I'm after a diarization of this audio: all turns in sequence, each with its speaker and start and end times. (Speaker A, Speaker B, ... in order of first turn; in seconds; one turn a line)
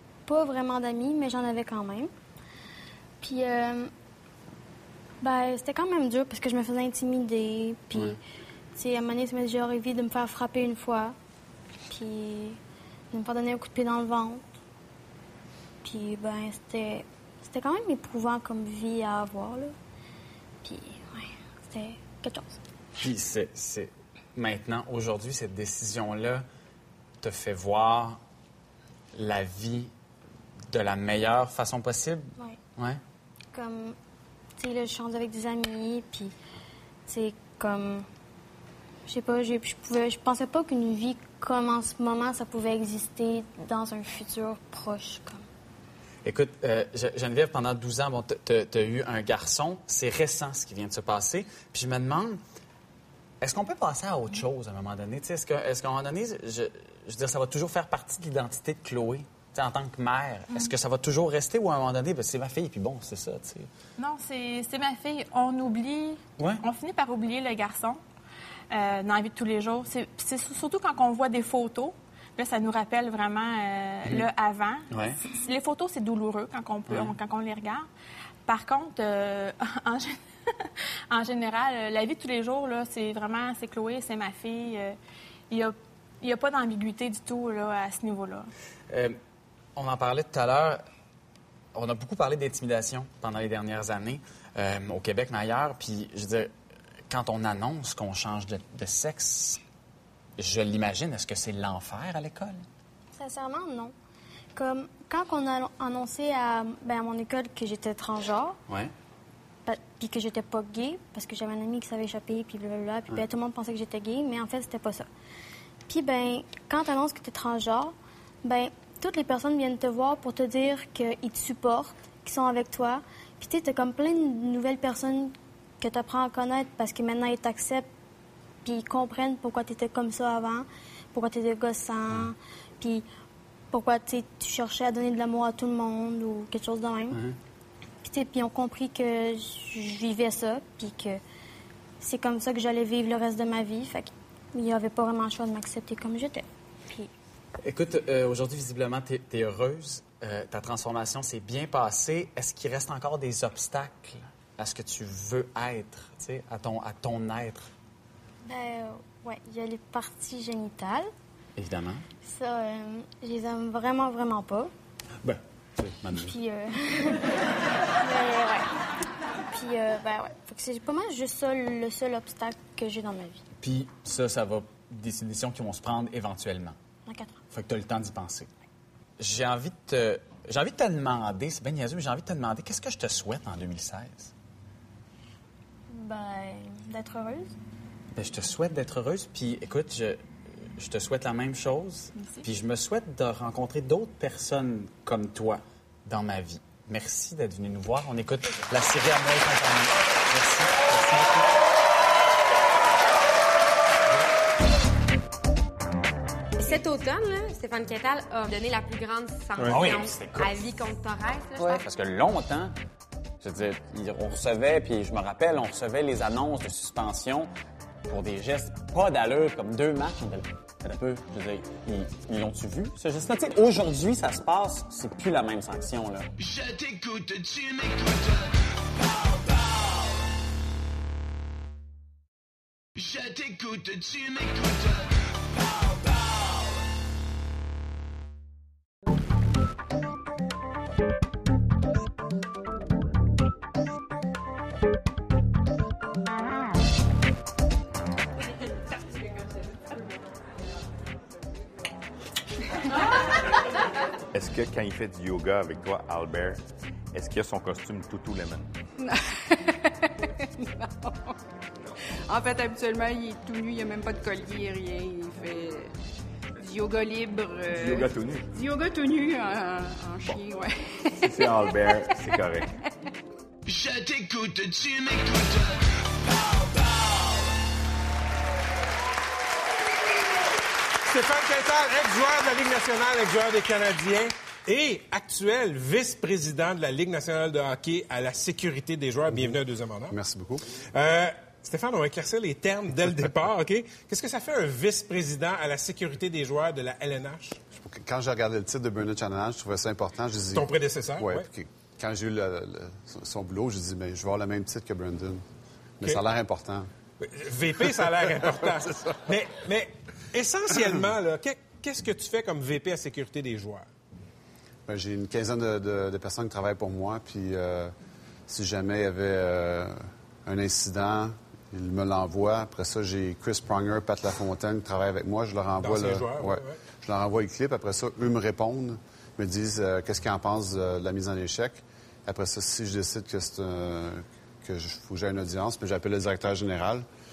Speaker A: 0.3-2.1
Speaker A: 3.2-3.9
Speaker A: 5.2-8.2
Speaker A: 8.8-11.2
Speaker A: 11.9-12.6
Speaker A: 13.1-14.4
Speaker A: 15.8-19.8
Speaker A: 20.6-22.6
Speaker B: 23.0-26.4
Speaker B: 27.2-28.2
Speaker B: 29.1-29.9
Speaker B: 30.7-33.0
Speaker A: 33.5-34.0
Speaker A: 34.6-36.3
Speaker A: 37.1-38.1
Speaker A: 39.1-45.4
Speaker B: 46.2-52.4
Speaker B: 53.4-63.7
Speaker C: 64.0-68.0
Speaker C: 68.7-77.9
Speaker B: 74.9-75.2
Speaker B: 76.9-77.1
Speaker C: 78.5-85.0
Speaker C: 85.5-88.5
Speaker B: 88.9-89.2
Speaker B: 89.8-90.8
Speaker B: 91.8-96.5
Speaker B: 97.1-99.6
Speaker B: 100.4-102.6
Speaker A: 103.1-103.9
Speaker A: 104.5-108.6
Speaker A: 109.7-115.1
Speaker A: 115.9-127.9
Speaker A: 128.6-133.1
Speaker A: 133.7-137.2
Speaker B: 137.1-137.4
Speaker A: 138.0-141.2
Speaker A: 142.0-147.1
Speaker B: 147.6-157.7
Speaker A: 158.5-161.1
Speaker B: 161.6-162.1
Speaker A: 162.2-164.7
Speaker B: 165.2-166.3
Speaker A: 166.1-167.4
Speaker A: 168.0-168.7
Speaker A: 169.5-173.4
Speaker B: 173.6-176.8
Speaker A: 177.1-177.4
Speaker B: 177.5-178.5
Speaker B: 179.2-184.3
Speaker A: 185.9-187.5
Speaker B: 188.2-190.2
Speaker B: 190.8-201.5
Speaker C: 192.2-192.5
Speaker D: 206.6-211.8
Speaker E: 209.6-209.9
Speaker B: 209.6-210.6
Speaker B: 211.7-212.7
Speaker B: 213.4-217.5
Speaker B: 218.1-226.3
Speaker F: 226.4-230.3
Speaker F: 233.0-236.9
Speaker G: 254.3-256.6
Speaker G: 257.1-258.7
Speaker H: 259.0-261.4
Speaker H: 262.3-265.9
Speaker H: 266.6-272.5
Speaker G: 267.7-268.5
Speaker G: 271.2-272.8
Speaker F: 273.7-277.6
Speaker E: 281.1-290.2
Speaker I: 289.3-289.6
Speaker I: 290.1-290.6
Speaker E: 290.7-297.6
Speaker I: 297.7-305.4
Speaker E: 300.5-301.5
Speaker I: 306.0-306.9
Speaker E: 307.2-313.9
Speaker I: 307.9-308.4
Speaker I: 314.9-317.9
Speaker I: 318.5-337.1
Speaker E: 325.8-326.8